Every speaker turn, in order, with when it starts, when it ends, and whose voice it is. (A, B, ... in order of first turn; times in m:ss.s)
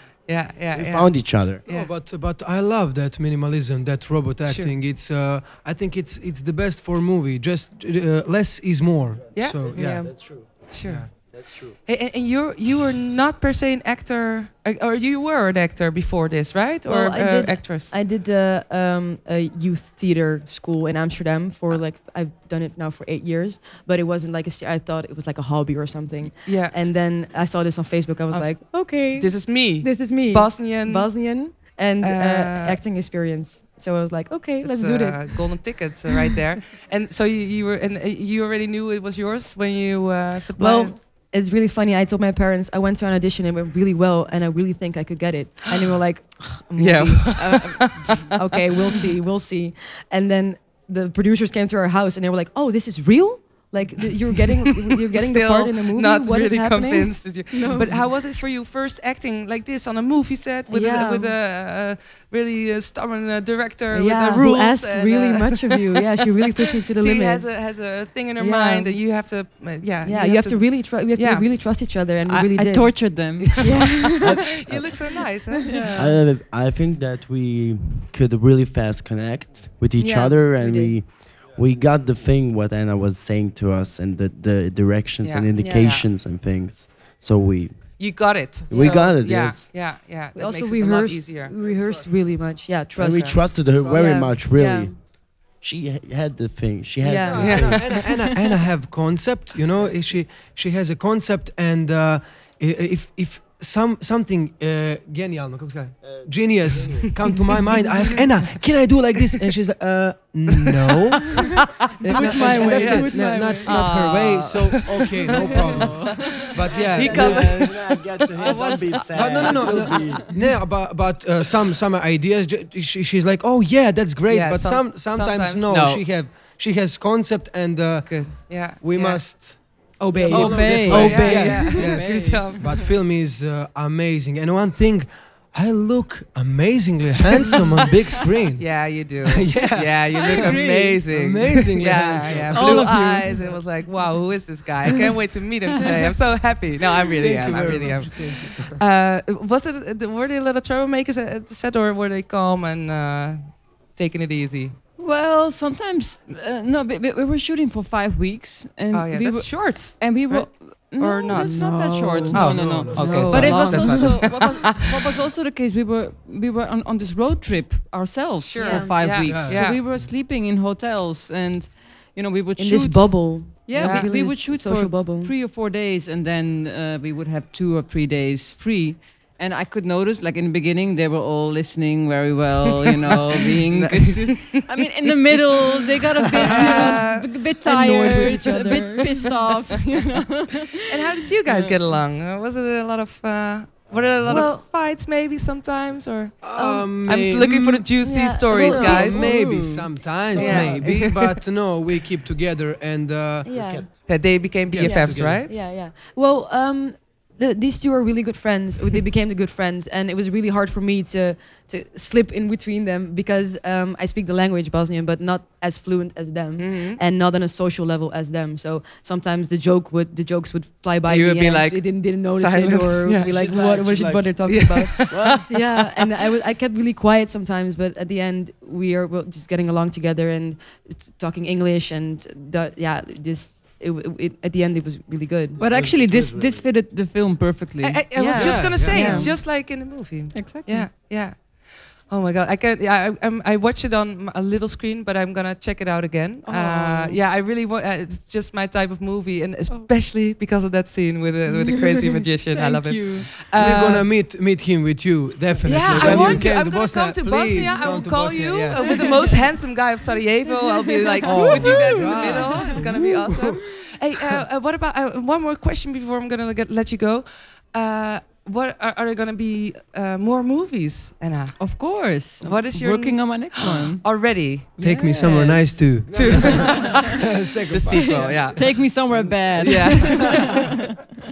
0:00.3-0:01.9 A
0:00.7-0:01.6 B
0:01.6-0:10.1 C
0:04.4-0:04.7 A
0:09.3-0:17.9 A
0:10.8-0:11.1 C
0:11.3-0:11.8 B
0:16.8-0:35.8 D
0:26.4-0:26.8 A
0:28.3-0:32.8 A
0:34.6-0:41.0 A
0:40.6-0:58.1 D
0:46.8-0:48.2 A
0:55.1-1:05.7 A
0:57.6-0:58.0 E
1:00.7-1:01.3 D
1:03.9-1:09.0 D
1:07.0-1:11.5 A
1:10.0-1:14.3 D
1:12.2-1:14.1 E
1:13.4-1:15.8 A
1:14.2-1:14.9 B
1:15.6-1:16.2 E
1:15.7-1:16.0 D
1:15.9-1:29.7 B
1:20.0-1:21.0 D
1:25.2-1:26.1 A
1:25.6-1:26.0 D
1:28.0-1:31.5 A
1:28.7-1:29.1 D
1:30.3-1:35.0 D
1:32.9-1:38.0 B
1:33.1-1:33.4 A
1:33.7-1:34.3 C
1:37.0-1:38.0 D
1:37.3-1:51.5 C
1:37.3-1:38.2 A
1:46.6-1:47.0 B
1:52.0-1:54.0 D
1:52.0-1:57.6 C
1:52.4-1:58.9 A
1:55.3-1:55.7 D
1:55.5-1:56.6 E
1:56.8-2:00.3 B
1:58.3-2:00.4 E
1:59.1-2:23.6 C
2:04.3-2:06.2 A
2:08.0-2:09.9 A
2:10.0-2:12.3 D
2:10.3-2:12.6 E
2:10.6-2:12.9 A
2:18.6-2:34.8 A
2:20.1-2:21.0 E
2:22.5-2:23.4 E
2:27.2-2:28.8 C
2:35.0-3:12.0 E
2:38.9-2:45.0 A
2:41.3-2:44.5 D
2:42.3-2:44.0 C
2:48.4-2:49.8 A
2:48.6-2:49.2 D
2:49.2-2:50.1 C
2:52.6-2:55.3 D
2:53.8-2:54.1 A
3:03.7-3:04.6 A
3:06.5-3:09.3 D
3:06.5-3:07.4 A
3:08.0-3:08.6 A
3:10.9-3:19.4 A
3:13.9-3:14.4 B
3:16.4-3:18.0 C
3:16.6-3:17.3 D
3:18.0-3:21.1 D
3:18.5-3:24.0 C
3:18.7-3:20.0 E
3:20.3-3:21.4 A
3:23.4-3:55.6 D
3:23.5-3:23.9 B
3:24.0-3:25.7 A
3:24.7-3:25.5 C
3:36.6-3:37.0 A
3:41.0-3:43.4 A
3:43.2-3:45.5 B
3:44.4-3:45.6 A
3:55.6-3:56.7 B
3:55.6-3:59.8 E
3:57.8-4:14.1 A
3:58.1-3:59.3 D
3:58.4-3:59.1 C
4:00.3-4:00.9 E
4:06.4-4:07.2 E
4:11.7-4:14.0 E
4:13.5-4:19.1 C
4:15.6-4:40.9 A
4:15.9-4:16.5 D
4:16.0-4:16.4 E
4:18.7-4:19.6 E
4:20.6-4:22.9 E
4:21.2-4:23.6 C
4:31.6-4:37.1 E
4:34.8-4:40.6 C
4:36.0-4:36.8 B
4:37.8-4:38.6 B
4:37.9-4:40.8 E